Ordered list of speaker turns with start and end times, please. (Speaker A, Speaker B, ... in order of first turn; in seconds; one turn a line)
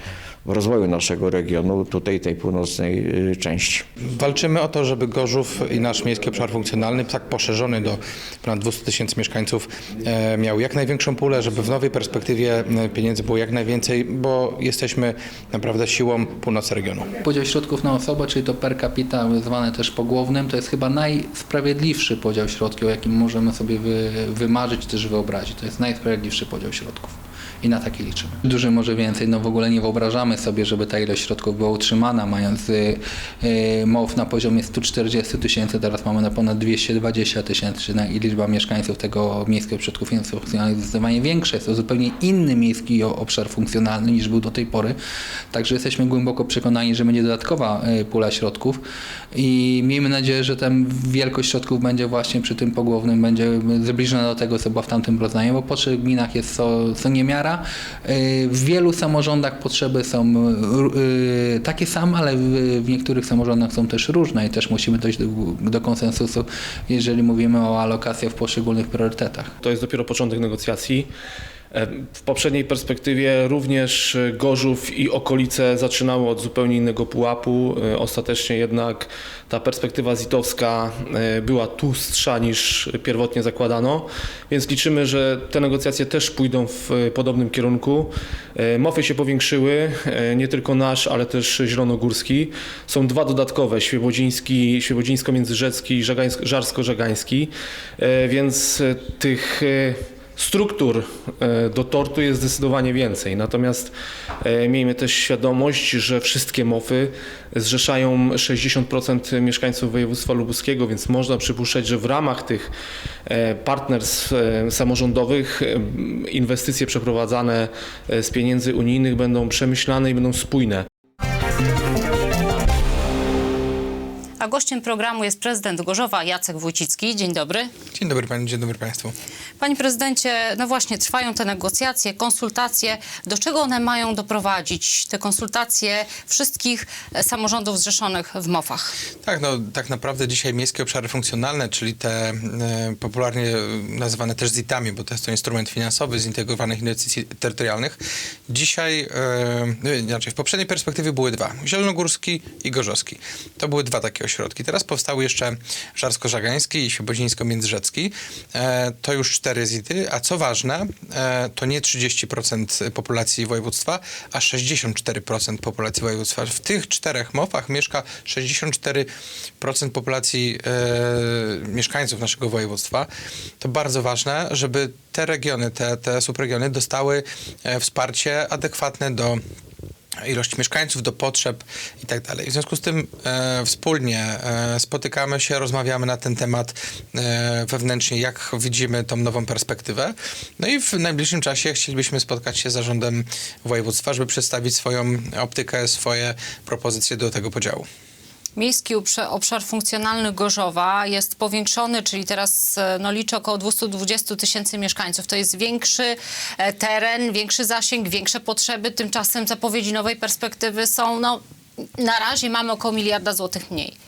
Speaker A: 0.4-3.8
Speaker B: 4.1-17.1
Speaker C: 17.2-45.0
Speaker C: 45.5-48.8
Speaker C: 49.3-69.5
Speaker D: 69.6-71.1
Speaker D: 71.7-112.7
Speaker D: 113.2-120.9
Speaker E: 124.4-127.7
Speaker B: 127.9-129.1
Speaker E: 129.6-138.9
Speaker B: 139.2-169.1
Speaker B: 169.6-173.1
Speaker B: 173.6-179.4
Speaker B: 180.2-197.9
Speaker E: 198.6-211.4
Speaker E: 212.0-213.9